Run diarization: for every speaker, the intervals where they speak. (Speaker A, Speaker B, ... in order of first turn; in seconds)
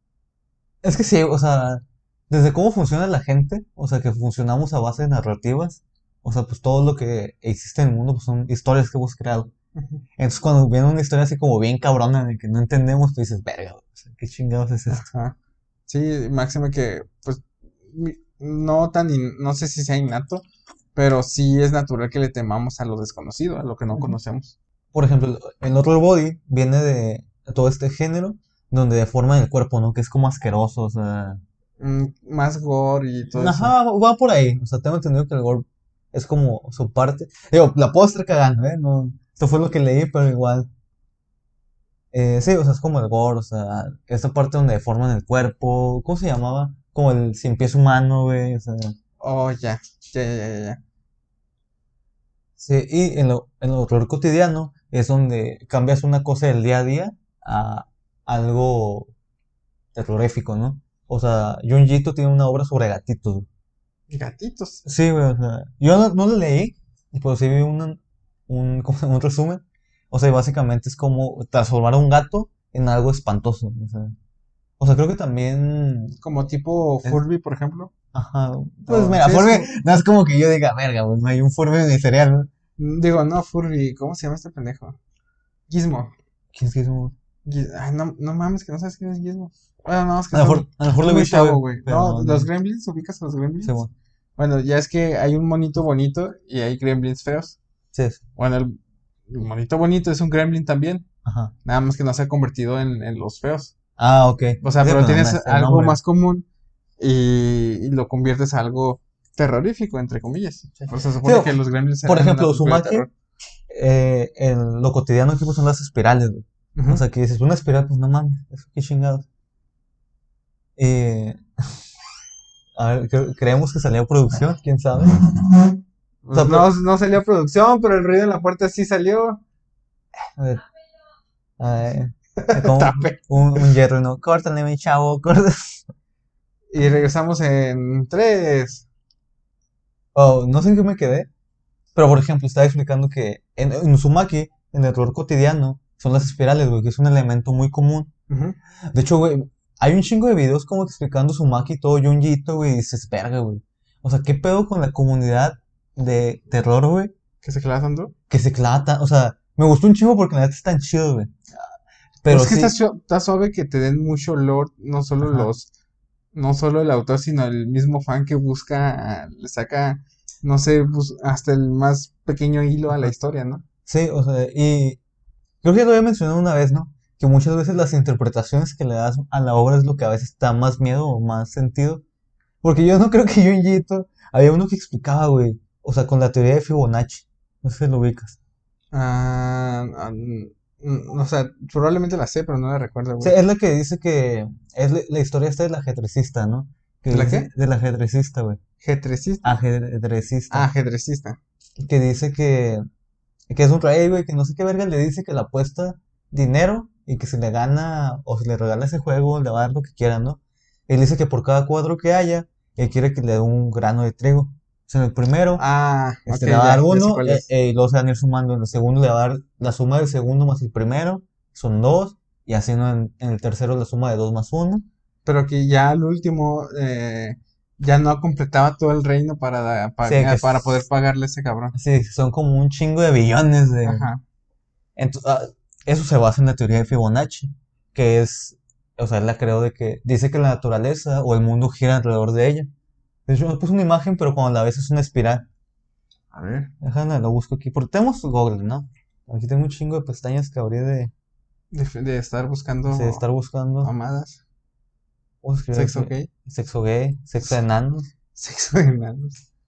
Speaker A: 0.8-9.5, 10.2-15.1, 24.9-31.4, 33.4-40.7, 42.1-49.0, 52.6-59.1, 59.9-63.5, 64.8-74.2, 74.8-76.2, 78.1-82.5, 86.5-87.2, 90.3-92.5, 93.6-93.9, 97.9-98.2, 101.2-101.5, 104.0-106.0, 111.2-113.1, 113.7-119.3, 120.8-121.4, 122.8-125.5, 126.3-126.7, 130.4-130.6, 131.6-135.9, 140.1-141.3, 141.9-148.1, 148.9-157.1, 158.3-161.3, 162.2-162.8, 173.9-175.0, 175.6-182.0, 182.6-188.4, 193.2-198.6, 199.4-200.7, 201.8-202.8, 203.5-215.6, 216.3-224.9, 230.0-230.8, 231.7-234.1, 235.0-242.7, 243.3-245.5, 246.8-251.1, 252.9-253.9, 255.4-258.1
Speaker B: 9.8-10.0, 14.9-15.3, 15.9-20.4, 20.9-24.6, 31.8-33.7, 49.2-50.8, 64.1-64.8, 76.2-77.9, 78.9-79.7, 82.8-85.0, 85.7-86.1, 87.5-93.8, 94.4-97.6, 98.4-101.0, 101.7-103.8, 104.6-106.5, 107.0-113.1, 116.8-117.0, 126.2-129.4, 132.4-133.7, 136.7-138.9, 148.3-148.6, 157.4-158.1, 162.3-165.7, 166.3-173.6, 188.9-193.4, 197.1-197.5, 198.8-199.6, 200.5-201.4, 215.6-217.5, 225.2-231.8, 233.8-234.2, 246.3-246.7, 251.7-253.2, 253.8-254.4, 255.7-256.3, 258.4-259.4